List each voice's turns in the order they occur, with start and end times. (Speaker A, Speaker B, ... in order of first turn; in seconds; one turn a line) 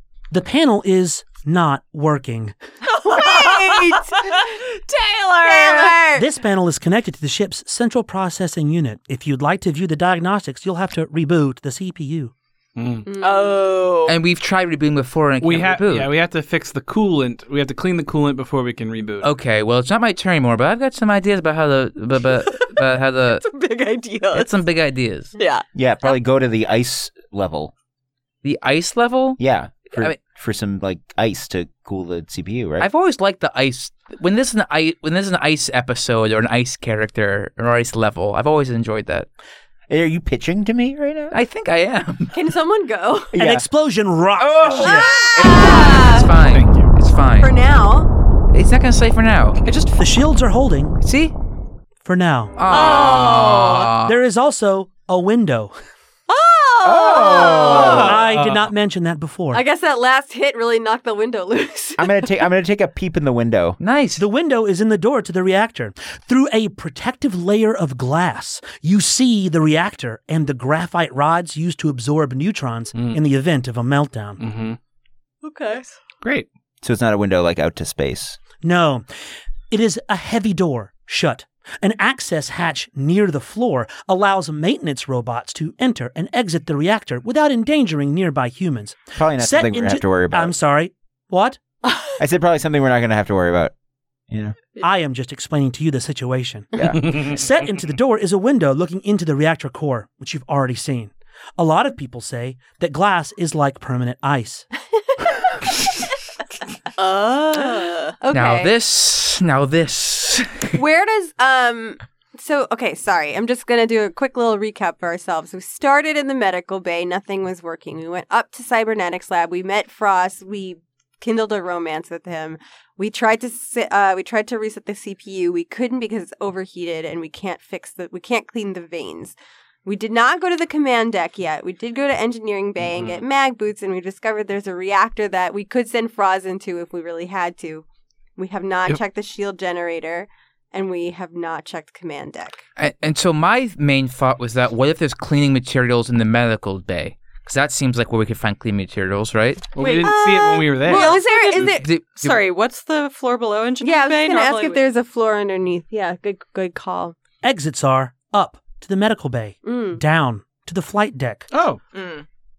Speaker A: 0.3-2.5
Speaker B: 2.9-6.0
Speaker C: 3.1-4.4
Speaker C: 5.4-6.3
Speaker A: 6.2-12.3
Speaker D: 12.8-13.1
Speaker C: 13.1-13.6
Speaker B: 13.2-14.2
Speaker E: 14.1-16.1
Speaker D: 15.4-19.3
Speaker E: 19.2-23.4
Speaker B: 22.4-22.7
Speaker B: 23.4-24.7
Speaker E: 24.3-25.3
Speaker B: 25.4-25.6
Speaker F: 25.8-27.7
Speaker E: 28.4-30.2
Speaker F: 29.4-32.9
Speaker E: 32.8-39.3
Speaker F: 39.9-41.4
Speaker E: 41.3-42.3
Speaker C: 42.3-43.3
Speaker F: 43.3-43.7
Speaker A: 43.4-45.2
Speaker F: 44.4-46.1
Speaker C: 44.8-46.3
Speaker E: 45.4-47.5
Speaker B: 45.4-45.8
Speaker D: 46.3-47.0
Speaker C: 47.4-48.1
Speaker E: 48.5-49.6
Speaker B: 49.6-50.0
Speaker A: 50.0-51.0
Speaker E: 51.0-51.3
Speaker A: 52.0-52.5
Speaker E: 52.6-54.2
Speaker B: 52.7-53.9
Speaker A: 54.0-55.8
Speaker B: 56.3-58.2
Speaker F: 56.8-58.2
Speaker D: 57.6-58.7
Speaker A: 57.9-59.6
Speaker C: 59.5-62.3
Speaker F: 62.0-63.8
Speaker E: 63.8-64.2
Speaker A: 64.2-74.4
Speaker D: 73.0-73.2
Speaker D: 74.4-74.8
Speaker B: 75.4-76.0
Speaker D: 76.2-76.5
Speaker F: 76.8-78.4
Speaker A: 78.6-79.0
Speaker A: 79.7-91.6
Speaker F: 89.2-90.5
Speaker F: 92.2-93.7
Speaker F: 94.3-94.6
Speaker A: 94.8-104.7
Speaker F: 96.8-97.2
Speaker D: 97.0-97.3
Speaker B: 107.0-108.2
Speaker C: 108.2-108.7
Speaker E: 108.3-110.8
Speaker C: 110.8-137.8
Speaker D: 132.8-133.2
Speaker C: 138.4-142.6
Speaker E: 142.8-149.7
Speaker D: 149.8-151.6
Speaker C: 149.8-151.8
Speaker B: 150.9-154.8
Speaker E: 151.5-152.4
Speaker C: 153.8-157.2
Speaker A: 157.4-161.5
Speaker C: 159.7-160.0
Speaker D: 161.5-161.8
Speaker B: 161.9-162.2